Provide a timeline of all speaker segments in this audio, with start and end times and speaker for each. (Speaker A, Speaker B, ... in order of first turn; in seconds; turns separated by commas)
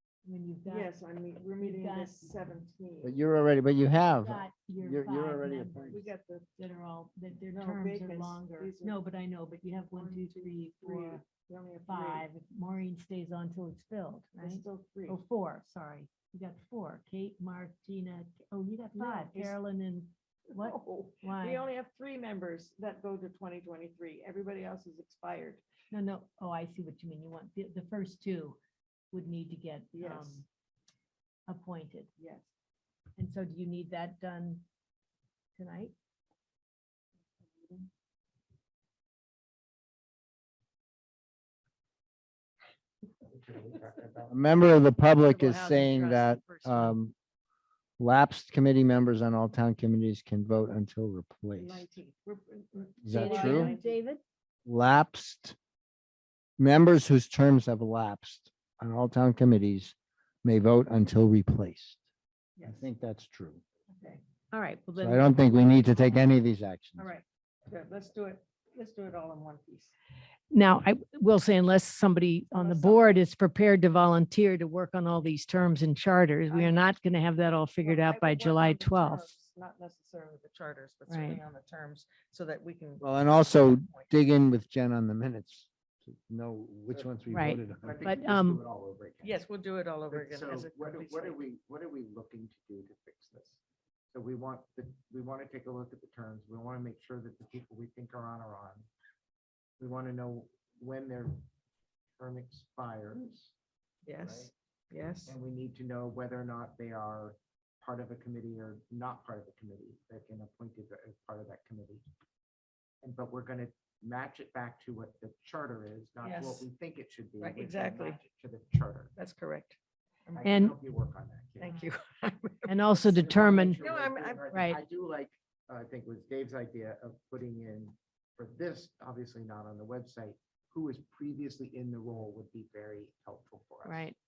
Speaker A: 0.2-0.9, Speaker B: 0.7-3.2, Speaker A: 1.6-2.3, Speaker C: 3.0-6.1, Speaker A: 4.2-11.2, Speaker B: 5.9-6.5, Speaker B: 7.5-9.0, Speaker B: 9.9-12.3, Speaker A: 11.8-21.6, Speaker B: 14.4-15.2, Speaker B: 18.9-19.6, Speaker B: 20.5-25.6, Speaker A: 25.9-28.6, Speaker A: 29.1-30.4, Speaker B: 29.9-30.4, Speaker A: 31.5-32.1, Speaker B: 32.2-32.5, Speaker A: 33.2-34.6, Speaker A: 35.6-35.9, Speaker B: 37.5-37.9, Speaker D: 43.2-44.4, Speaker C: 44.3-47.1, Speaker A: 45.1-47.0, Speaker C: 48.0-51.9, Speaker B: 51.6-54.0, Speaker C: 53.0-53.7, Speaker A: 53.1-54.2, Speaker C: 54.7-55.6, Speaker C: 56.6-62.0, Speaker B: 62.6-62.9, Speaker C: 62.6-63.6, Speaker B: 63.9-64.2, Speaker A: 64.5-65.4, Speaker C: 65.0-67.1, Speaker B: 67.0-69.9, Speaker A: 70.5-79.3, Speaker B: 72.5-73.2, Speaker B: 76.5-76.9, Speaker B: 77.8-84.1, Speaker A: 81.1-81.4, Speaker C: 83.0-88.0, Speaker A: 87.3-88.6, Speaker D: 87.8-89.4, Speaker B: 89.2-91.4, Speaker D: 90.1-93.6, Speaker D: 94.1-98.9, Speaker D: 99.8-101.5, Speaker D: 102.2-103.5, Speaker B: 104.1-105.4, Speaker D: 104.1-104.5, Speaker D: 105.3-112.1, Speaker D: 113.0-119.1, Speaker B: 116.2-116.7, Speaker B: 117.4-118.2, Speaker B: 119.2-120.5, Speaker D: 120.3-121.8, Speaker A: 120.4-120.8, Speaker B: 121.6-123.1, Speaker A: 122.7-123.8, Speaker D: 123.0-134.1, Speaker B: 123.8-124.5, Speaker A: 124.5-124.8, Speaker A: 133.8-134.2